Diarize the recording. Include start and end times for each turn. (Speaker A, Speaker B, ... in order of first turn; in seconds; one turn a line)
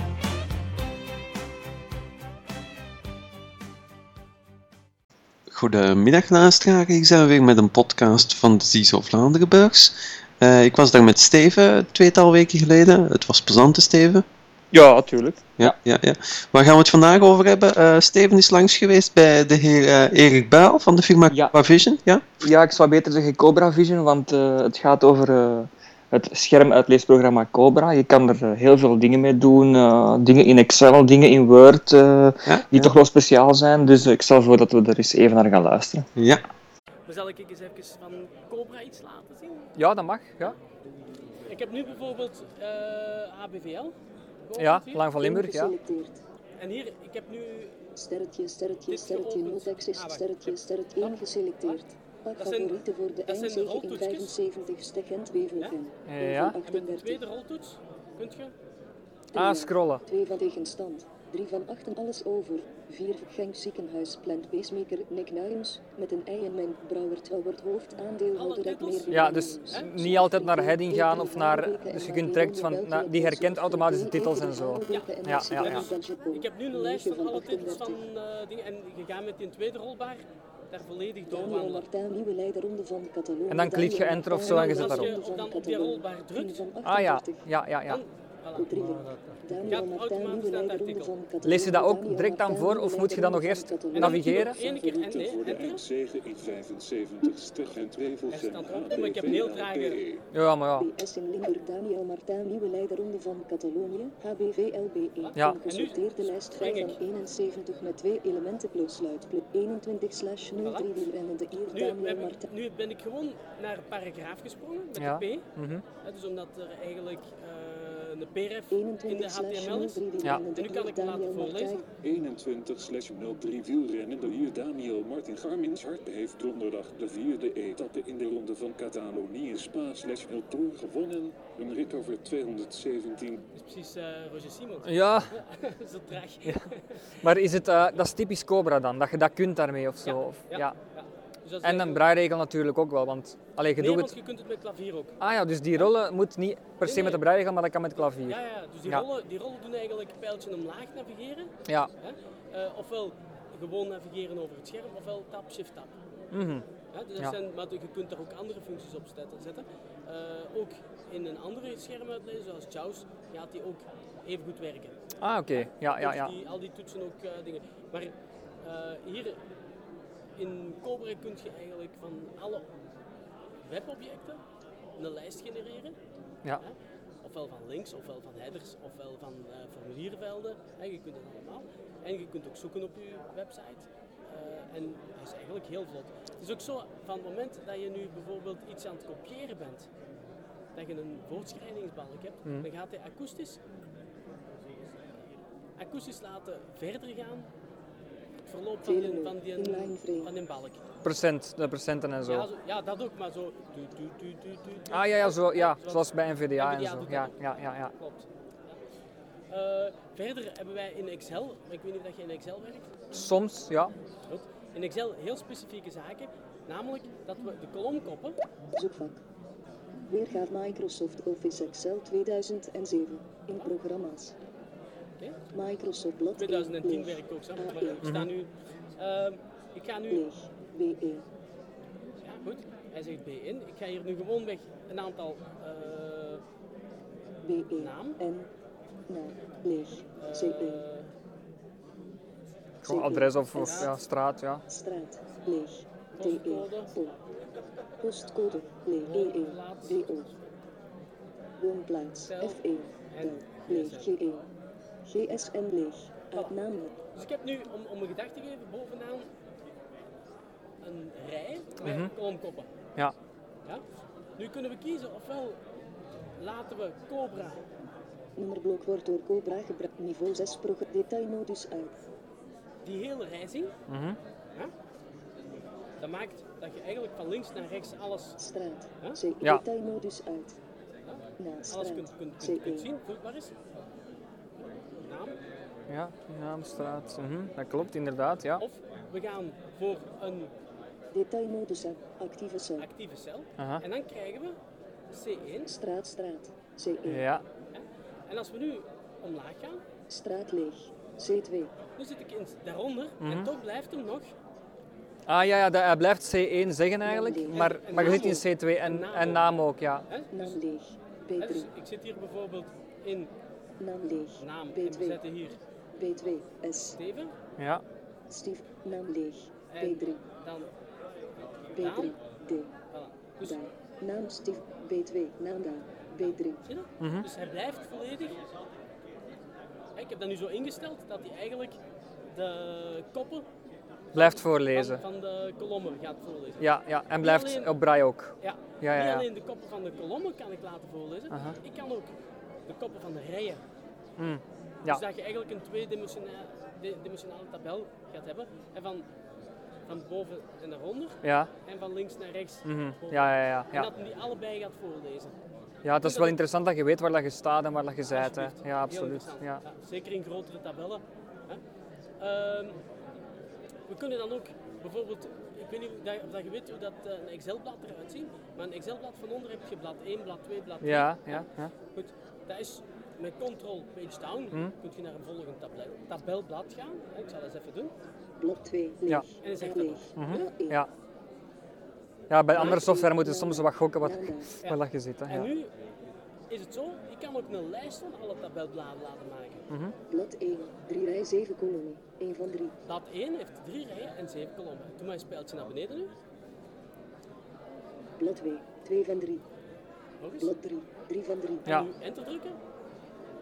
Speaker A: 5.5-14.2
Speaker B: 14.7-15.7
Speaker A: 15.6-22.3
Speaker B: 22.5-36.0
Speaker A: 32.4-33.0
Speaker A: 36.1-36.4
Speaker C: 37.1-39.7
Speaker D: 39.8-40.5
Speaker C: 41.5-43.9
Speaker C: 44.5-45.0
Speaker D: 44.6-45.7
Speaker E: 45.2-46.2
Speaker C: 46.6-47.8
Speaker E: 48.0-57.2
Speaker C: 48.9-51.8
Speaker C: 52.4-52.8
Speaker C: 53.3-54.3
Speaker D: 56.0-56.6
Speaker C: 56.6-58.5
Speaker E: 59.3-78.0
Speaker D: 59.3-60.0
Speaker C: 68.3-69.9
Speaker D: 69.1-75.8
Speaker C: 74.9-81.9
Speaker E: 81.3-87.5
Speaker D: 83.5-85.1
Speaker C: 84.4-86.7
Speaker D: 86.8-88.0
Speaker C: 87.9-88.7
Speaker E: 88.5-94.5
Speaker C: 89.7-91.1
Speaker D: 91.4-94.6
Speaker C: 93.9-95.8
Speaker F: 94.4-100.2
Speaker C: 98.3-100.0
Speaker D: 100.3-100.9
Speaker E: 100.7-112.5
Speaker C: 105.6-107.0
Speaker C: 110.6-110.9
Speaker C: 111.7-115.5
Speaker D: 115.0-115.8
Speaker C: 116.0-121.8
Speaker E: 118.7-121.8
Speaker F: 122.0-133.4
Speaker C: 133.5-137.0
Speaker D: 134.8-135.3
Speaker D: 137.2-140.7
Speaker C: 140.0-142.0
Speaker D: 141.6-144.1
Speaker C: 143.8-145.2
Speaker D: 145.2-149.1
Speaker C: 146.8-147.2
Speaker C: 148.2-151.5
Speaker C: 152.0-155.9
Speaker D: 156.3-156.6
Speaker C: 156.9-164.9
Speaker D: 165.2-166.3
Speaker C: 165.5-169.4
Speaker C: 170.4-172.7
Speaker C: 173.6-174.4
Speaker C: 175.0-175.9
Speaker C: 176.6-189.9
Speaker C: 190.7-193.6
Speaker C: 195.8-197.5
Speaker C: 198.5-200.8
Speaker E: 198.8-200.3
Speaker D: 201.0-202.5
Speaker C: 202.2-208.7
Speaker D: 204.9-207.9
Speaker C: 209.5-212.9
Speaker D: 213.1-213.9
Speaker C: 214.3-218.3
Speaker E: 218.8-219.2
Speaker E: 220.0-224.3
Speaker E: 225.5-228.0
Speaker C: 226.4-230.2
Speaker D: 228.0-228.3
Speaker E: 230.1-231.2
Speaker C: 232.2-236.4
Speaker E: 237.4-238.5
Speaker C: 237.8-238.2
Speaker E: 239.1-240.8
Speaker C: 240.2-241.1
Speaker E: 242.8-243.9
Speaker D: 242.8-244.6
Speaker C: 243.5-243.9
Speaker E: 244.7-247.2
Speaker C: 246.2-246.9
Speaker E: 248.0-250.3
Speaker C: 249.1-250.1
Speaker E: 251.6-254.5
Speaker C: 252.3-252.6
Speaker C: 253.1-254.1
Speaker E: 255.1-256.9
Speaker C: 257.1-259.3
Speaker C: 260.8-262.7
Speaker D: 261.8-262.1
Speaker C: 264.4-265.6
Speaker C: 266.4-267.6
Speaker E: 268.4-272.0
Speaker C: 272.8-273.7
Speaker D: 273.9-274.2
Speaker C: 276.0-278.4
Speaker E: 278.4-280.6
Speaker C: 281.1-283.5
Speaker E: 281.4-282.9
Speaker C: 285.0-285.4
Speaker D: 285.9-288.6
Speaker C: 288.6-290.5
Speaker E: 291.1-292.9
Speaker C: 292.8-294.6
Speaker D: 293.6-293.8
Speaker C: 295.1-295.7
Speaker E: 295.6-297.3
Speaker D: 297.1-297.4
Speaker C: 297.7-299.8
Speaker E: 300.1-301.7
Speaker C: 301.9-304.3
Speaker D: 303.2-303.5
Speaker D: 305.3-310.0
Speaker E: 307.0-308.2
Speaker C: 307.5-309.5
Speaker C: 310.1-310.5
Speaker E: 310.3-311.7
Speaker C: 311.4-313.3
Speaker E: 313.8-315.2
Speaker C: 314.4-315.6
Speaker E: 315.9-317.0
Speaker C: 317.0-317.3
Speaker D: 317.6-317.8
Speaker E: 318.3-320.2
Speaker C: 319.7-320.7
Speaker E: 321.7-322.7
Speaker C: 321.8-322.2
Speaker C: 322.9-323.6
Speaker E: 323.4-326.6
Speaker C: 326.6-328.4
Speaker D: 327.0-327.3
Speaker C: 329.9-331.8
Speaker C: 332.3-333.4
Speaker D: 334.1-335.0
Speaker C: 334.1-336.7
Speaker D: 336.6-339.2
Speaker C: 337.2-337.7
Speaker C: 338.4-342.1
Speaker D: 341.3-341.6
Speaker C: 342.7-343.6
Speaker D: 344.2-345.0
Speaker C: 344.9-349.1
Speaker C: 349.9-355.3
Speaker D: 351.2-351.5
Speaker D: 352.6-353.9
Speaker D: 355.8-359.6
Speaker C: 356.0-356.4
Speaker C: 358.1-361.6
Speaker C: 362.2-362.8
Speaker C: 363.9-377.9
Speaker D: 370.8-371.7
Speaker E: 378.4-380.8
Speaker C: 379.4-380.4
Speaker D: 380.1-380.9
Speaker D: 382.3-385.5
Speaker E: 382.5-384.5
Speaker C: 384.6-385.7
Speaker C: 386.5-389.6
Speaker D: 389.7-389.9
Speaker E: 390.1-392.7
Speaker C: 392.9-396.1
Speaker E: 398.2-399.4
Speaker C: 400.2-400.5
Speaker E: 400.4-401.8
Speaker C: 401.6-402.6